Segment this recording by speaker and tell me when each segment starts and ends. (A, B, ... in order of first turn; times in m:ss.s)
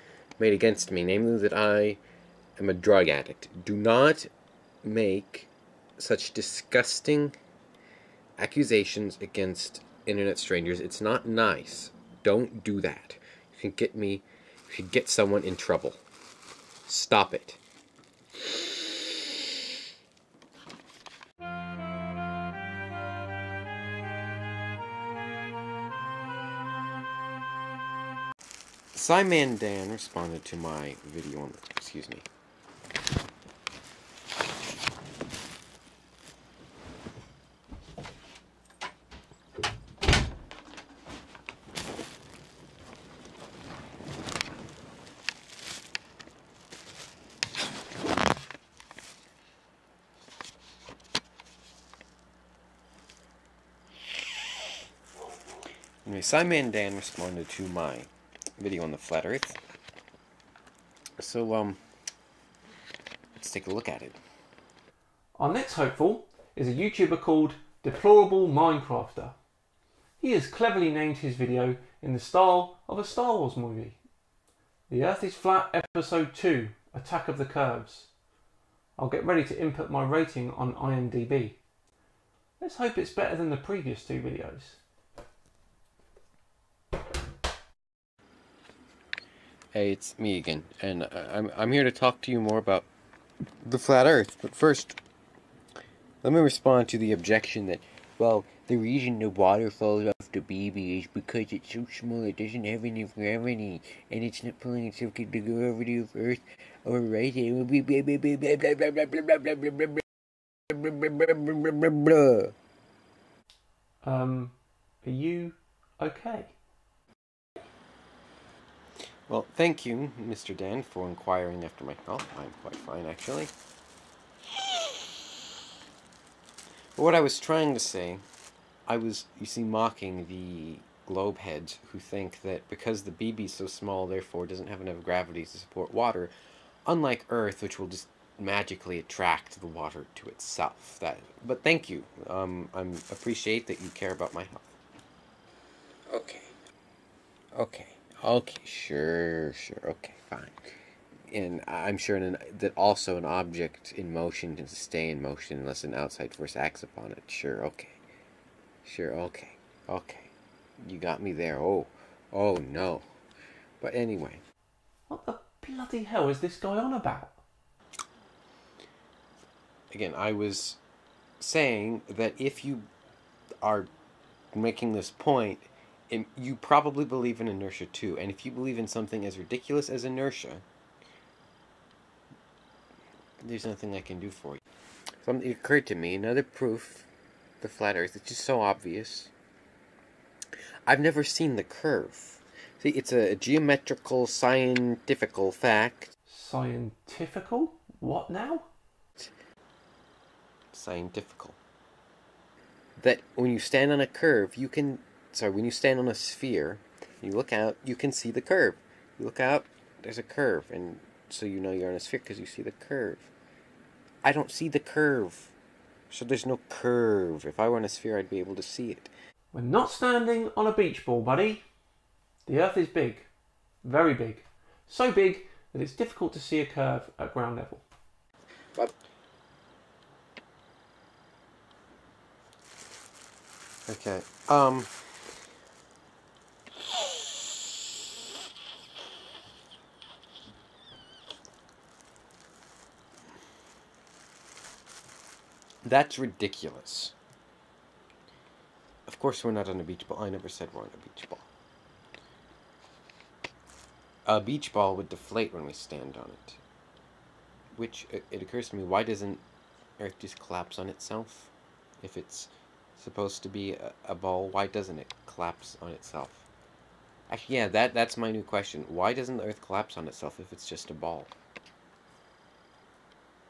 0:00.4-0:02.0 A
0:02.6-0:04.3 A
0:04.8-0:07.4 A
0:08.4-0:16.0 A
0:16.8-0:17.6 A
0:28.9-0:32.2 A
0:56.0-0:59.6 A
1:01.2-1:01.8 A
1:03.4-1:04.2 A
1:05.4-1:09.3 B
1:10.2-1:14.0 B
1:14.9-1:18.1 B
1:19.0-1:21.6 B
1:22.6-1:24.8 B
1:29.7-1:32.9 A
1:33.6-1:35.0 A
1:36.2-1:50.0 A
1:50.7-1:52.5 A
1:54.0-1:56.6 B
1:59.3-2:03.5 A
2:07.0-2:08.2 A
2:08.9-2:16.3 A
2:16.8-2:24.7 A
2:26.1-2:26.5 A
2:27.5-2:30.7 A
2:31.3-2:38.0 A
2:38.8-2:43.0 A
2:43.8-2:44.4 A
2:45.1-2:47.4 B
2:49.9-2:50.8 A
2:51.4-2:52.9 A
2:53.6-2:53.9 A
2:54.5-3:00.6 A
3:03.4-3:04.6 A
3:05.2-3:07.1 A
3:07.6-3:09.3 A
3:10.9-3:16.1 A
3:16.3-3:18.7 B
3:20.7-3:21.6 A
3:23.0-3:33.3 A
3:34.2-3:35.5 A
3:36.1-3:39.1 A
3:39.5-3:41.6 B
3:42.4-3:43.3 B
3:43.8-3:47.8 B
3:53.9-3:54.9 A
4:05.8-4:07.1 A
4:09.1-4:11.5 A
4:14.3-4:16.6 A
4:17.7-4:19.4 A
4:20.0-4:26.4 A
4:27.3-4:31.3 A